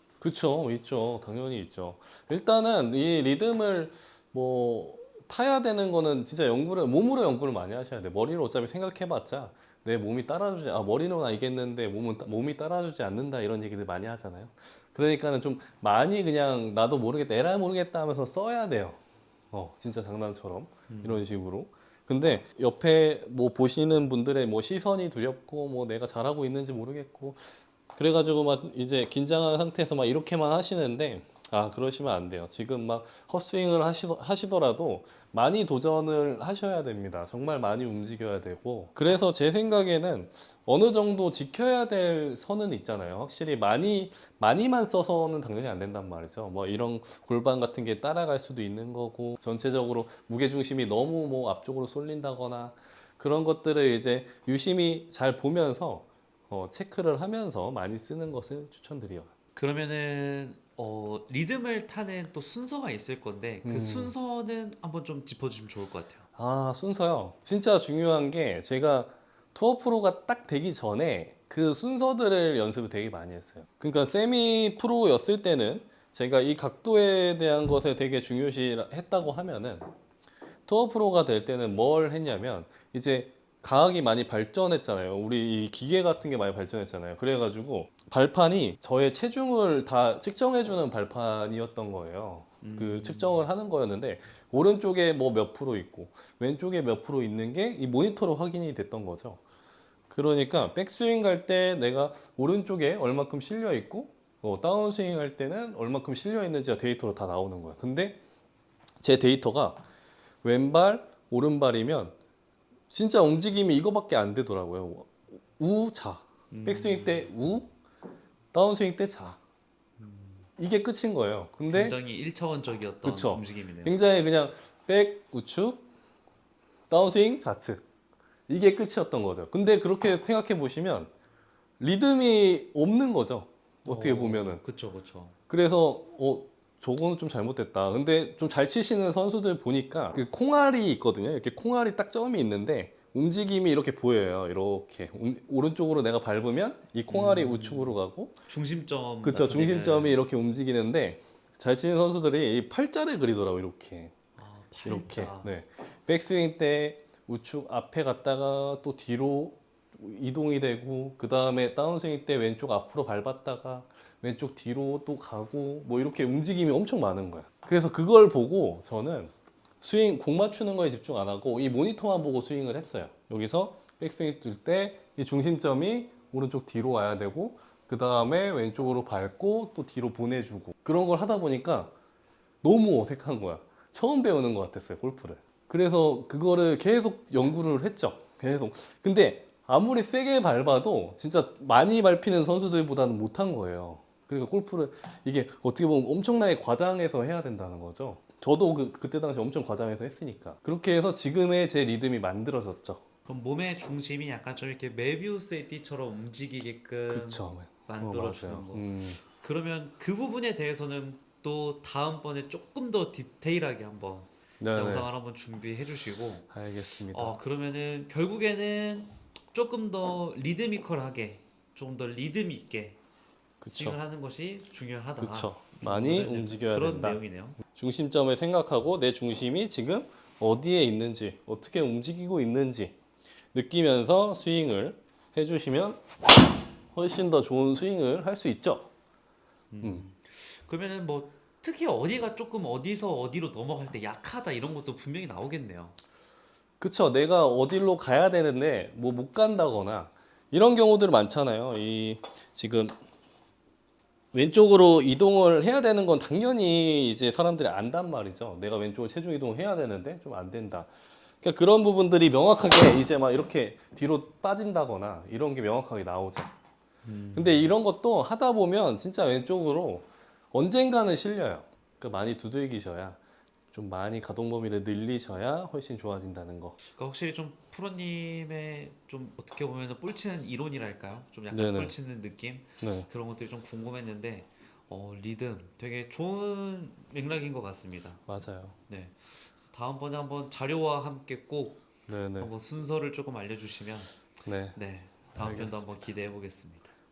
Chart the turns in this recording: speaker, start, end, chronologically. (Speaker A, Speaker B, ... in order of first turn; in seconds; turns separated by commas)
Speaker A: 0.2-19.0, Speaker A: 19.5-27.4, Speaker B: 20.9-21.2, Speaker A: 27.9-59.3, Speaker B: 59.5-66.2, Speaker A: 63.6-64.1, Speaker A: 66.3-79.9, Speaker A: 80.7-99.4, Speaker B: 92.6-93.4, Speaker A: 100.1-108.2, Speaker A: 109.0-109.8, Speaker A: 110.4-112.2, Speaker A: 112.9-117.7, Speaker B: 116.5-117.2, Speaker A: 118.5-119.4, Speaker B: 120.0-120.5, Speaker A: 120.6-122.0, Speaker B: 121.7-124.0, Speaker A: 123.0-125.8, Speaker A: 126.9-127.8, Speaker A: 128.5-131.1, Speaker A: 131.8-134.6, Speaker B: 133.8-135.3, Speaker A: 135.5-148.3, Speaker B: 147.1-150.2, Speaker A: 149.2-154.1, Speaker B: 154.4-155.5, Speaker A: 154.8-181.9, Speaker A: 182.6-203.0, Speaker B: 203.2-223.0, Speaker A: 207.1-209.2, Speaker A: 214.6-215.1, Speaker A: 216.5-217.3, Speaker A: 223.6-224.0, Speaker B: 223.7-227.6, Speaker A: 225.2-227.2, Speaker A: 227.8-232.9, Speaker A: 233.5-236.0, Speaker A: 236.9-238.9, Speaker B: 239.7-245.9, Speaker A: 246.8-252.9, Speaker A: 254.3-260.9, Speaker A: 261.4-266.5, Speaker B: 267.0-267.7, Speaker A: 267.3-273.2, Speaker A: 273.7-276.8, Speaker B: 276.8-288.3, Speaker A: 281.5-281.9, Speaker A: 282.8-283.1, Speaker A: 288.3-288.8, Speaker B: 288.9-291.9, Speaker A: 292.1-292.5, Speaker B: 292.4-294.1, Speaker A: 294.4-294.8, Speaker B: 294.7-296.9, Speaker A: 295.3-296.1